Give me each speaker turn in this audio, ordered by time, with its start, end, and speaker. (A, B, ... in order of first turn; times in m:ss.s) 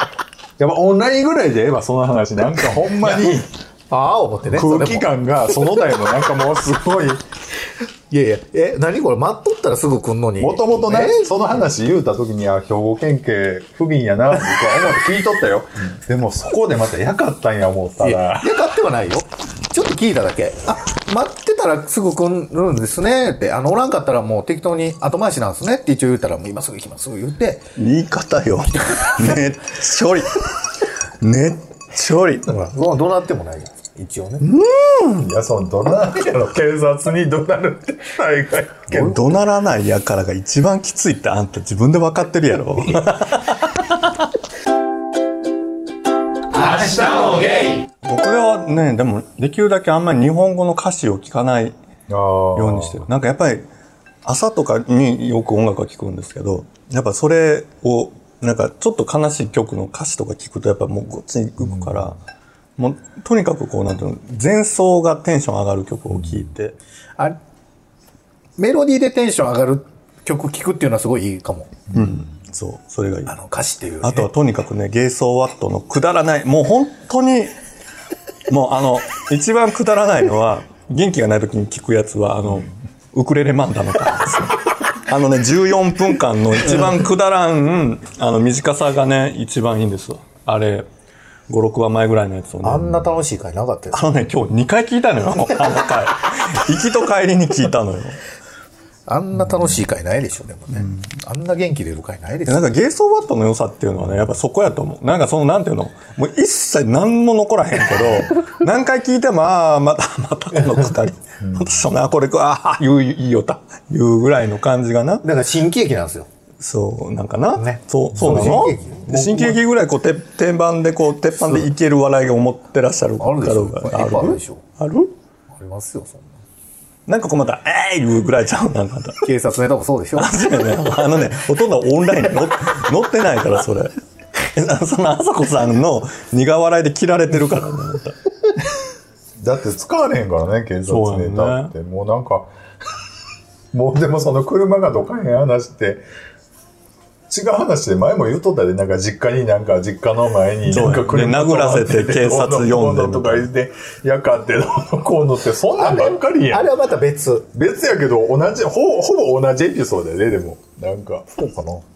0:00.6-0:03.5 A
0:02.9-0:03.3 B
0:03.9-0:05.1 B
0:04.5-0:07.2 A
0:08.1-0:11.5 B
0:10.4-0:18.6 A
0:18.0-0:27.7 B
0:27.8-0:30.4 C
0:31.2-0:32.5 C
0:32.4-0:34.5 B
0:34.4-0:35.3 C
0:35.1-0:39.1 A
0:38.9-0:44.2 C
0:46.8-0:47.2 C
0:48.0-0:51.8 C
0:52.1-0:53.1 A
0:52.5-0:53.6 C
0:54.2-1:02.2 C
1:01.6-1:02.1 A
1:02.8-1:06.8 C
1:06.2-1:06.4 A
1:08.6-1:11.8 B
1:11.9-1:12.2 A
1:11.9-1:13.4 C
1:13.3-1:14.3 B
1:14.0-1:17.5 C
1:18.5-1:30.9 C
1:31.5-1:33.2 C
1:32.6-1:34.2 B
1:33.9-1:38.2 C
1:39.1-1:42.7 B
1:40.7-1:41.1 C
1:42.4-1:55.2 C
1:51.4-1:51.8 A
1:55.2-1:56.3 B
1:56.6-2:05.1 C
1:57.5-1:59.6 B
1:58.1-1:58.7 A
2:01.4-2:01.7 B
2:03.2-2:04.6 B
2:05.5-2:06.4 B
2:07.1-2:09.2 C
2:09.2-2:10.3 B
2:10.1-2:18.2 C
2:19.4-2:22.5 A
2:20.8-2:21.7 C
2:23.7-2:26.0 A
2:27.3-2:36.8 A
2:30.6-2:33.5 C
2:35.8-2:37.5 B
2:37.5-2:41.4 A
2:41.4-2:41.8 B